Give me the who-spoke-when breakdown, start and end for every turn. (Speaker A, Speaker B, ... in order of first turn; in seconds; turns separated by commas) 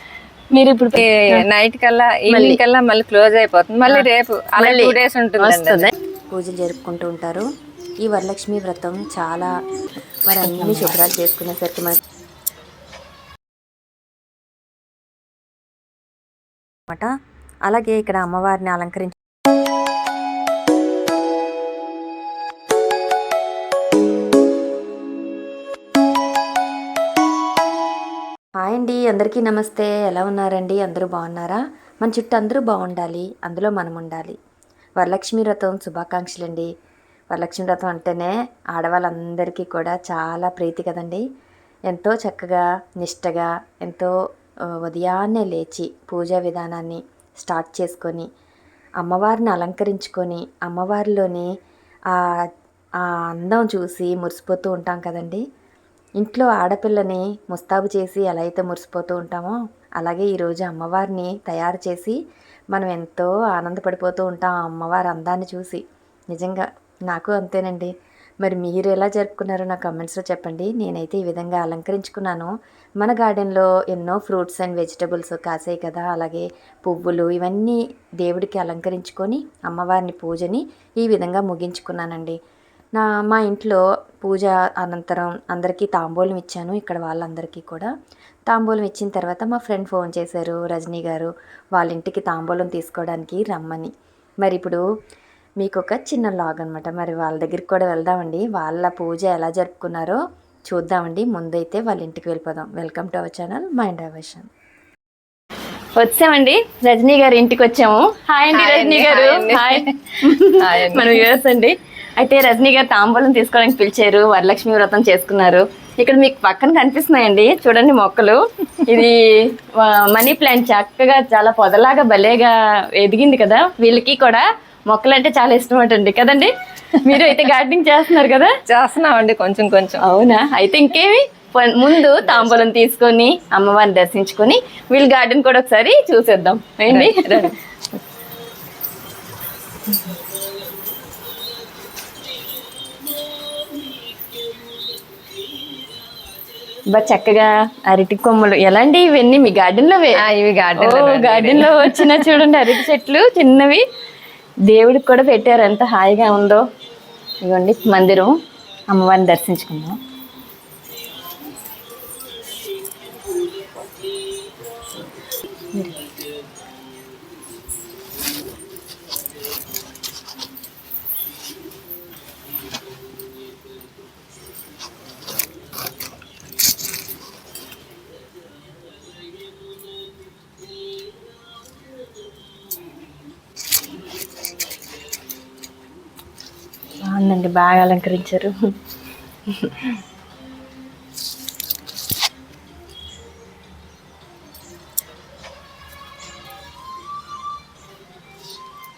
Speaker A: 0.5-1.4, Speaker B: 0.9-5.9, Speaker A: 2.3-2.6, Speaker A: 4.6-5.9, Speaker C: 6.3-7.5, Speaker C: 8.0-9.6, Speaker C: 10.2-12.0, Speaker A: 10.4-11.0, Speaker C: 17.6-19.1, Speaker C: 28.6-34.4, Speaker C: 35.0-36.7, Speaker C: 37.3-41.2, Speaker C: 41.9-48.3, Speaker C: 49.0-51.5, Speaker C: 52.1-55.4, Speaker C: 56.2-62.2, Speaker C: 62.7-82.4, Speaker C: 82.9-87.9, Speaker C: 88.5-94.8, Speaker C: 95.6-104.5, Speaker A: 106.0-128.5, Speaker B: 108.5-111.3, Speaker B: 128.7-130.0, Speaker A: 130.0-137.5, Speaker B: 132.1-132.7, Speaker B: 136.9-137.6, Speaker A: 146.9-150.2, Speaker B: 150.2-152.4, Speaker A: 150.8-153.8, Speaker A: 154.7-156.6, Speaker A: 157.4-158.3, Speaker A: 158.9-160.0, Speaker A: 187.0-188.5